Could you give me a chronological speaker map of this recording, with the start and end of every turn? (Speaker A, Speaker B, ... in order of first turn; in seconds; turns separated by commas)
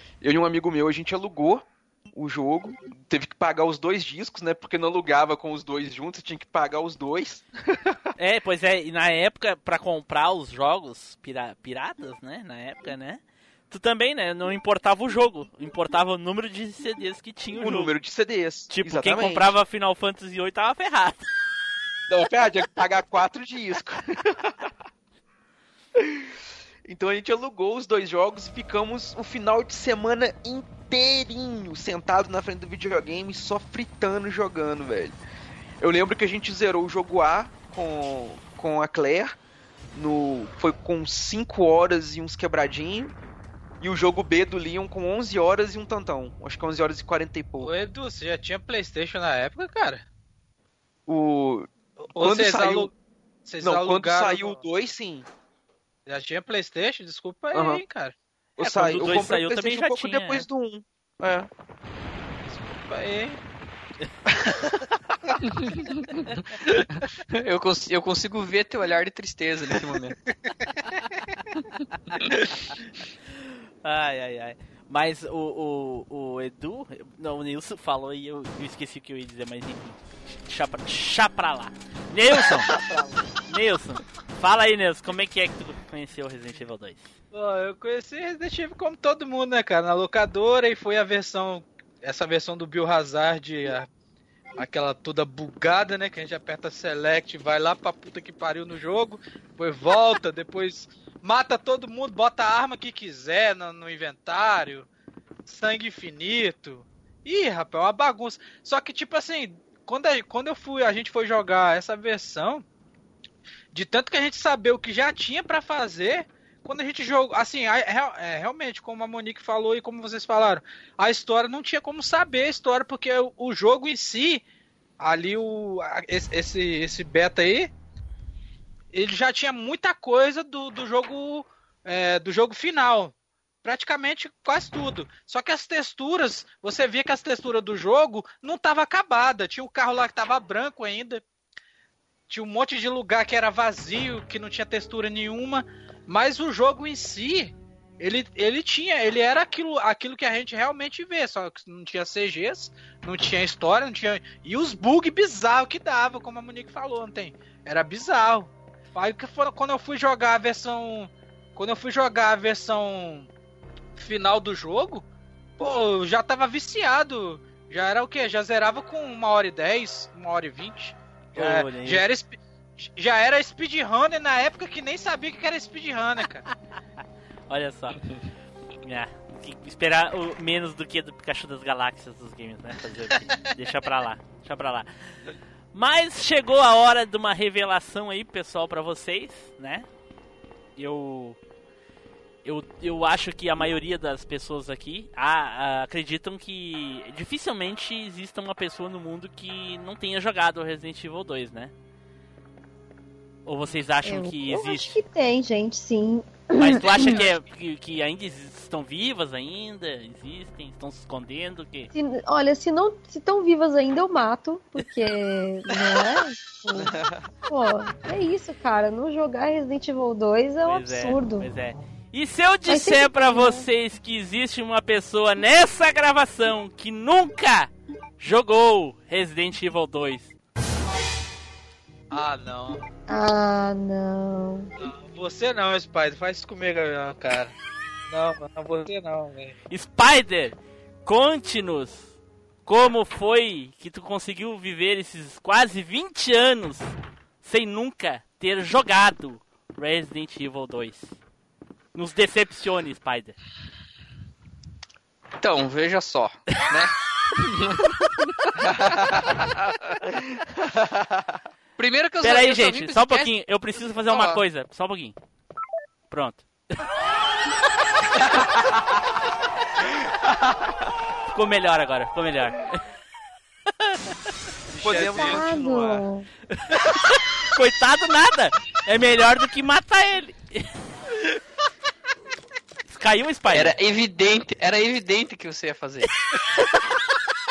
Speaker A: 0.2-8.0, Speaker B: 8.2-17.9, Speaker A: 17.5-19.5, Speaker B: 18.7-21.2, Speaker A: 22.1-24.6, Speaker A: 26.0-26.3, Speaker A: 26.9-35.1, Speaker A: 35.8-39.4, Speaker A: 39.9-43.1, Speaker A: 43.8-47.7, Speaker C: 47.6-50.0, Speaker A: 51.1-52.9, Speaker C: 52.0-52.9, Speaker C: 53.4-54.6, Speaker A: 53.6-55.2, Speaker C: 56.0-58.1, Speaker A: 57.5-57.8, Speaker A: 58.6-61.5, Speaker B: 58.6-60.5, Speaker C: 62.5-63.4, Speaker D: 65.5-66.4, Speaker D: 67.0-70.2, Speaker B: 73.4-82.7, Speaker C: 82.7-83.2, Speaker B: 83.5-87.1, Speaker C: 87.3-93.9, Speaker C: 94.6-104.9, Speaker C: 105.5-112.6, Speaker C: 113.7-124.4, Speaker C: 125.0-127.7, Speaker C: 128.9-141.2, Speaker C: 142.3-163.3, Speaker C: 164.0-165.1, Speaker C: 165.6-176.4, Speaker B: 171.3-172.0, Speaker B: 177.5-178.0, Speaker B: 178.8-184.9, Speaker B: 185.7-189.9, Speaker B: 190.8-191.4, Speaker B: 192.4-201.7, Speaker B: 203.4-205.0, Speaker E: 204.0-207.2, Speaker B: 206.6-211.9, Speaker E: 211.9-221.5, Speaker A: 216.7-217.2, Speaker B: 220.6-230.3, Speaker E: 222.7-223.7, Speaker C: 232.1-232.8, Speaker E: 233.1-234.7, Speaker C: 234.8-237.5, Speaker C: 238.1-239.5, Speaker B: 239.7-242.1, Speaker B: 242.7-251.2, Speaker B: 251.9-253.4, Speaker D: 255.4-257.9, Speaker D: 258.5-259.5, Speaker A: 258.7-259.0, Speaker A: 260.1-261.2, Speaker D: 261.8-264.4, Speaker B: 262.2-265.1, Speaker B: 266.1-266.4, Speaker A: 270.3-270.5, Speaker B: 271.3-272.8, Speaker C: 274.7-275.4, Speaker A: 274.8-276.0, Speaker E: 275.2-276.3, Speaker B: 276.5-280.7, Speaker B: 282.9-283.7, Speaker D: 283.5-286.1